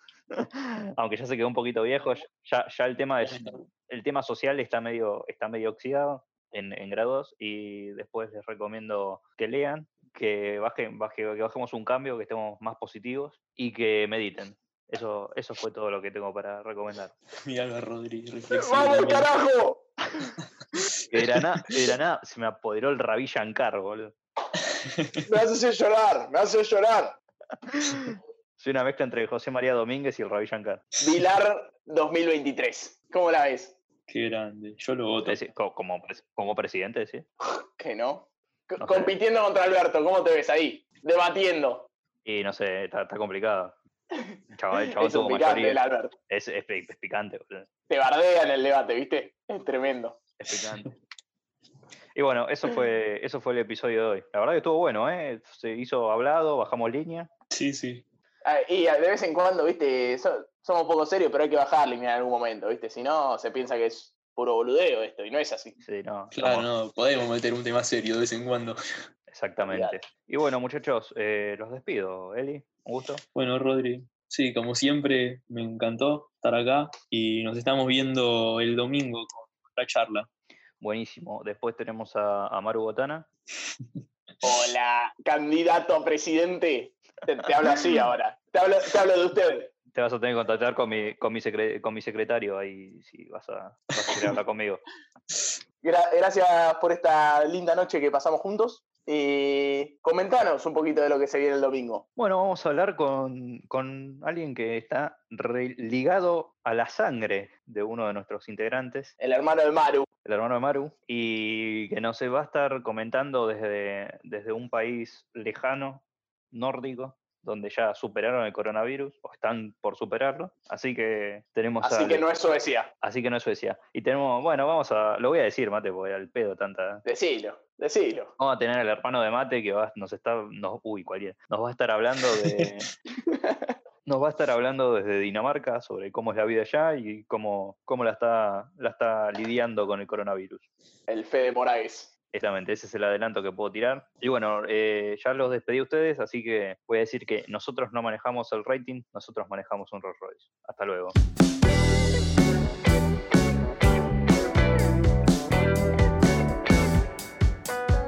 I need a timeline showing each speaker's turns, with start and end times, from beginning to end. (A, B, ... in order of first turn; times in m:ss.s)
0:00.3-0:17.1 A
0:03.2-0:03.7 B
0:17.4-0:19.3 B
0:18.5-0:20.3 C
0:21.1-0:24.1 A
0:24.8-0:25.2 B
0:25.2-0:27.2 C
0:27.7-0:30.8 A
0:31.0-0:33.8 C
0:34.1-0:35.4 B
0:35.2-0:37.2 A
0:37.4-0:41.9 C
0:38.8-0:39.2 A
0:42.2-0:43.8 A
0:44.5-0:47.7 A
0:44.9-0:46.1 C
0:47.9-0:50.2 C
0:50.4-0:51.0 A
0:52.1-0:57.3 A
0:57.5-0:58.0 B
0:58.4-1:05.8 C
1:05.8-1:06.7 A
1:06.3-1:08.8 B
1:09.3-1:13.2 A
1:09.6-1:10.0 C
1:13.3-1:20.3 B
1:20.8-1:23.3 A
1:24.4-1:29.7 C
1:29.9-1:34.8 A
1:35.8-1:42.0 C
1:42.2-1:49.1 A
1:49.2-1:50.1 C
1:50.2-2:02.2 A
2:01.8-2:02.9 C
2:03.0-2:07.0 A
2:07.0-2:08.3 C
2:08.4-2:12.9 A
2:13.3-2:13.7 C
2:14.0-2:20.6 A
2:21.1-2:22.1 C
2:22.3-2:31.1 A